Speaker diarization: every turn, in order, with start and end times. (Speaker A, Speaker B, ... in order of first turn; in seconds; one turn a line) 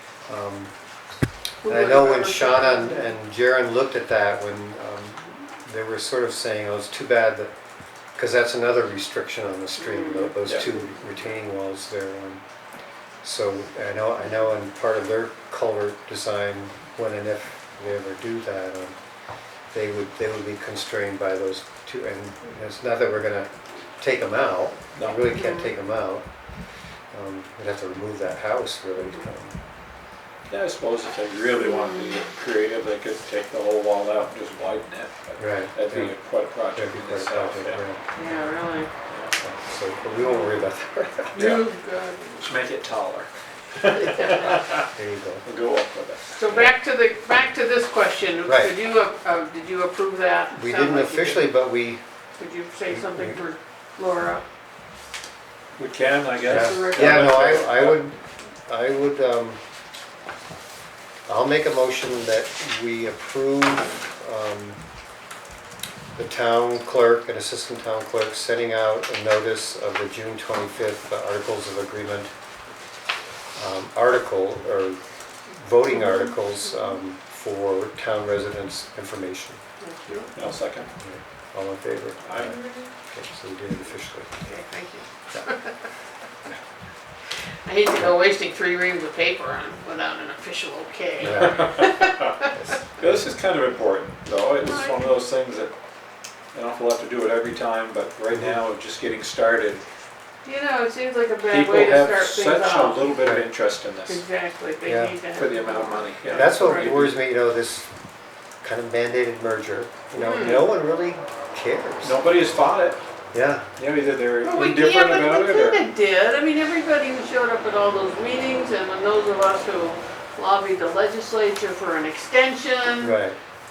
Speaker A: 0.3-0.7
Speaker B: 1.6-3.2
Speaker A: 1.7-7.5
Speaker A: 8.2-12.4
Speaker B: 9.8-10.9
Speaker A: 13.2-19.0
Speaker A: 19.7-26.3
Speaker C: 24.9-25.3
Speaker B: 25.2-25.8
Speaker A: 27.1-29.6
Speaker B: 29.0-29.2
Speaker C: 30.5-37.8
Speaker A: 35.4-36.1
Speaker A: 36.7-38.0
Speaker B: 38.1-38.9
Speaker A: 39.4-41.5
Speaker B: 40.2-40.6
Speaker B: 41.3-42.5
Speaker C: 41.4-41.6
Speaker C: 42.4-44.9
Speaker B: 44.0-44.6
Speaker A: 44.9-45.5
Speaker C: 45.4-46.7
Speaker B: 46.3-51.5
Speaker A: 48.5-48.7
Speaker A: 50.5-52.0
Speaker B: 52.4-54.4
Speaker A: 52.9-53.4
Speaker C: 55.8-58.0
Speaker B: 56.5-57.4
Speaker A: 56.5-59.6
Speaker A: 61.3-64.8
Speaker A: 66.2-72.3
Speaker A: 73.6-79.6
Speaker B: 75.9-77.0
Speaker B: 79.8-80.3
Speaker C: 80.3-80.9
Speaker A: 81.0-84.3
Speaker C: 82.2-82.5
Speaker B: 82.4-82.9
Speaker B: 84.4-85.7
Speaker B: 87.7-92.5
Speaker A: 91.2-93.2
Speaker C: 93.0-95.7
Speaker B: 94.6-95.1
Speaker C: 96.5-99.8
Speaker A: 98.3-98.6
Speaker B: 100.5-103.1
Speaker C: 101.5-104.2
Speaker B: 104.1-107.1
Speaker A: 104.8-105.2
Speaker C: 105.4-107.2
Speaker A: 106.3-107.9
Speaker A: 108.6-112.2
Speaker B: 110.2-110.7
Speaker C: 112.0-113.0
Speaker A: 113.3-113.7
Speaker C: 113.8-115.9
Speaker B: 114.4-123.2
Speaker A: 123.0-123.4